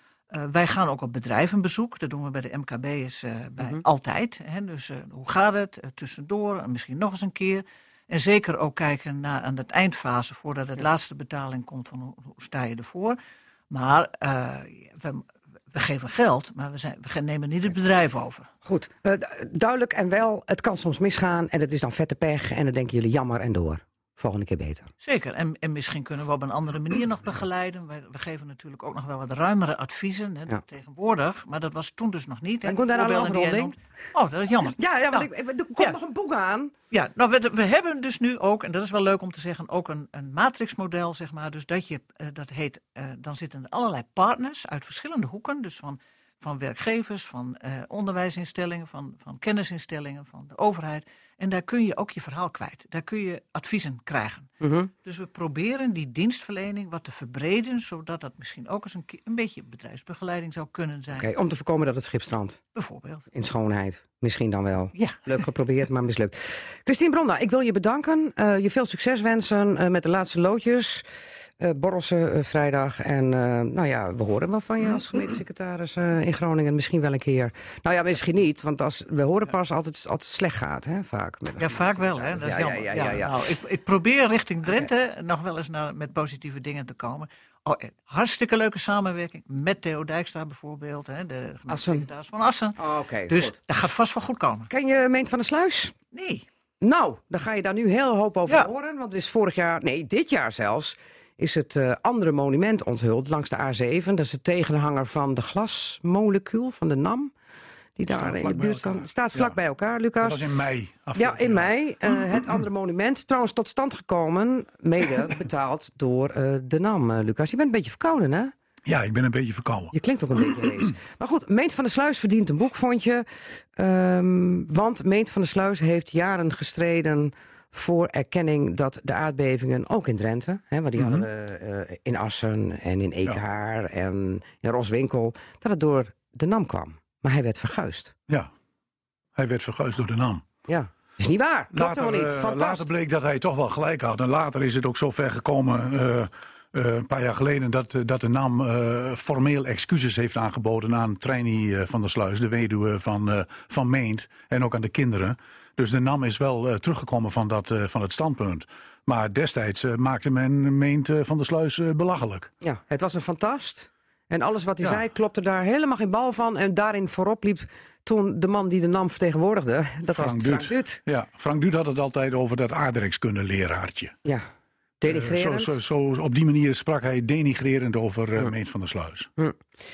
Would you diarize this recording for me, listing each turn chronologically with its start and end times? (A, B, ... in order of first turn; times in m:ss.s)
0:00.3-0:13.2 A
0:13.7-0:18.5 A
0:18.6-0:24.9 B
0:25.0-0:35.3 A
0:32.6-0:33.7 B
0:34.8-0:36.7 B
0:36.9-0:54.5 A
0:54.6-0:54.9 B
0:55.0-1:01.3 A
1:01.1-1:02.6 B
1:02.7-1:03.3 A
1:03.3-1:11.0 B
1:05.0-1:05.2 A
1:11.6-1:23.3 B
1:21.6-1:34.7 A
1:31.7-1:32.1 B
1:32.8-1:33.6 B
1:34.7-1:35.9 B
1:36.1-1:36.4 A
1:36.8-1:47.3 B
1:48.0-1:50.4 B
1:48.1-1:49.6 C
1:50.2-1:52.6 C
1:51.2-1:58.5 B
1:58.9-2:00.6 C
1:59.9-2:03.2 B
2:03.8-2:18.1 B
2:11.0-2:11.3 C
2:19.4-2:20.4 C
2:20.7-2:22.8 B
2:21.7-2:42.5 C
2:42.6-2:51.0 B
2:50.1-2:54.2 C
2:55.0-2:55.7 B
2:55.0-2:59.3 C